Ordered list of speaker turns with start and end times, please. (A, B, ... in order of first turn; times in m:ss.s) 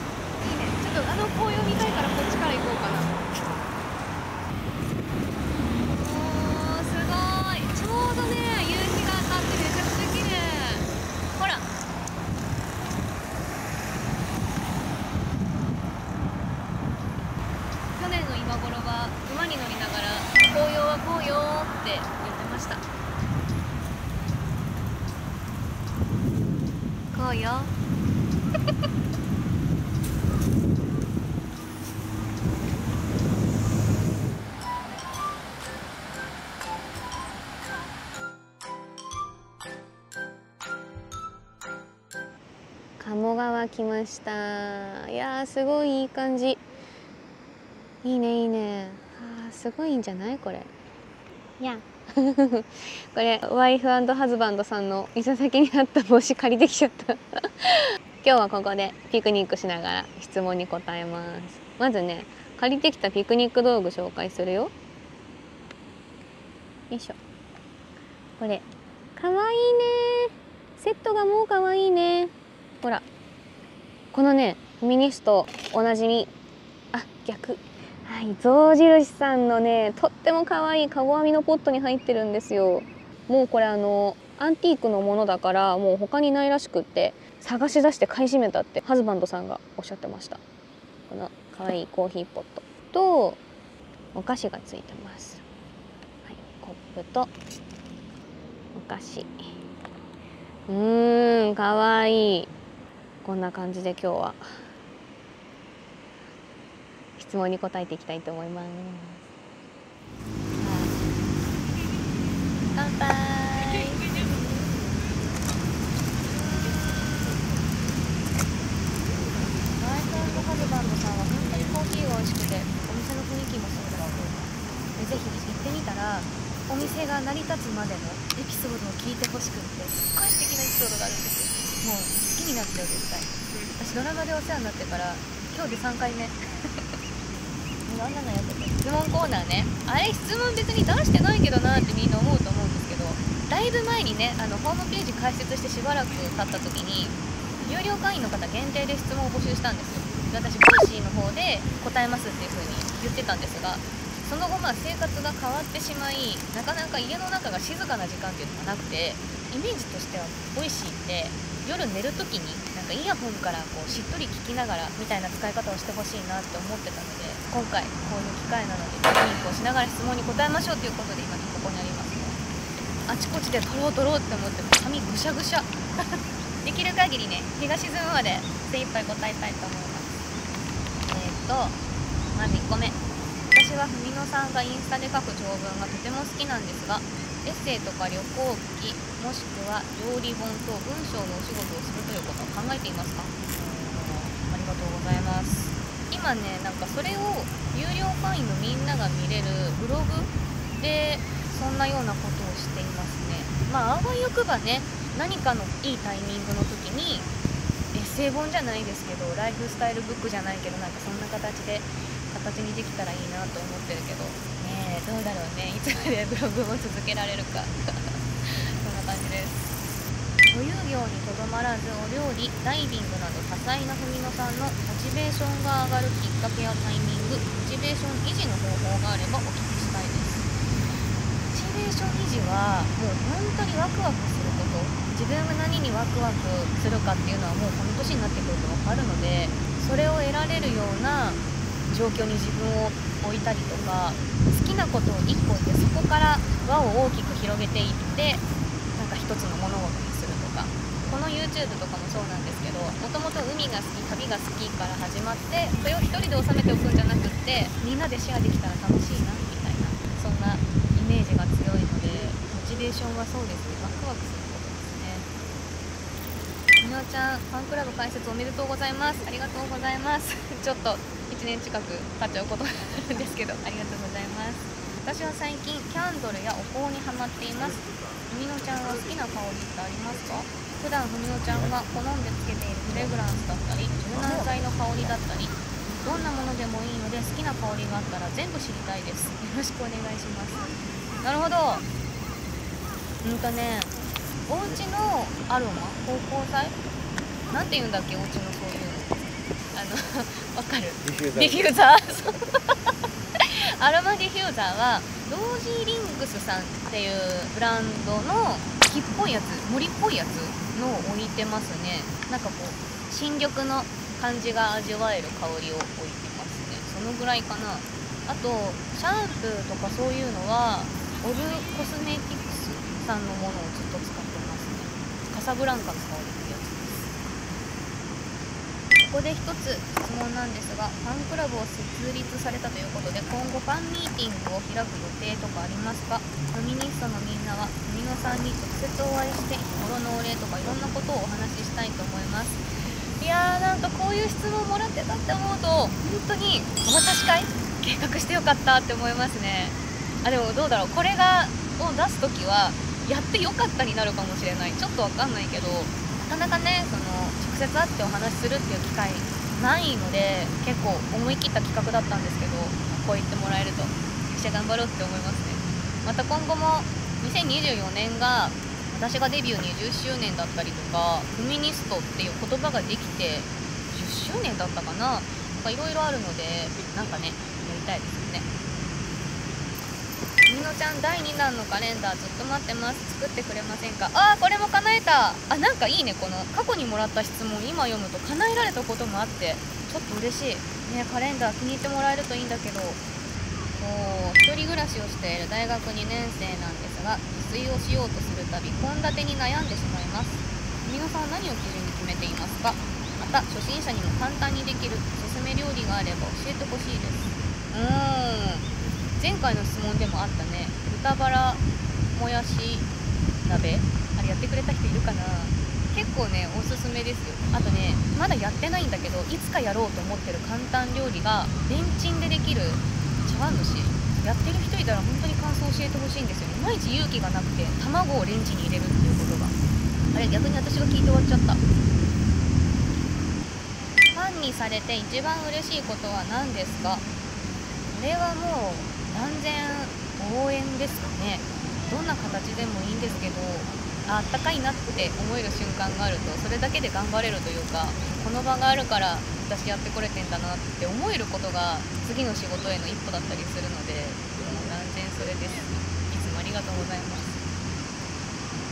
0:00.4-0:03.2 A
0:05.9-0:11.7 A
0:18.0-0:22.8 A
0:27.1-0:27.7 A
0:43.0-0:46.6 A
0:48.0-0:50.7 A
0:51.6-1:04.7 A
1:06.9-1:07.2 A
1:08.4-1:13.1 A
1:14.1-1:16.3 A
1:16.9-1:30.4 A
1:31.1-1:33.4 A
1:34.1-1:35.4 A
1:36.2-1:37.4 A
1:38.7-1:39.5 A
1:40.7-1:42.5 A
1:43.2-1:44.4 A
1:47.2-1:49.2 A
1:50.6-1:51.0 A
1:52.8-1:54.0 A
1:56.2-1:57.4 A
1:59.8-2:16.7 A
2:17.9-2:52.4 A
2:53.1-3:00.1 A
3:01.0-3:01.8 A
3:02.3-3:27.3 A
3:27.9-3:39.7 A
3:40.5-3:50.5 A
3:51.5-4:08.4 A
4:09.0-4:25.3 A
4:26.8-4:50.7 A
4:51.2-4:51.9 A
4:53.2-4:54.0 A
4:54.5-4:56.8 A
4:57.5-5:02.7 A
5:03.4-5:27.1 A
5:29.0-5:42.6 A
5:43.2-6:18.5 A
6:20.5-6:33.0 A
6:33.7-6:52.9 A
6:53.4-7:09.6 A
7:10.1-7:11.6 A
7:14.1-7:17.0 A
7:17.9-7:37.4 A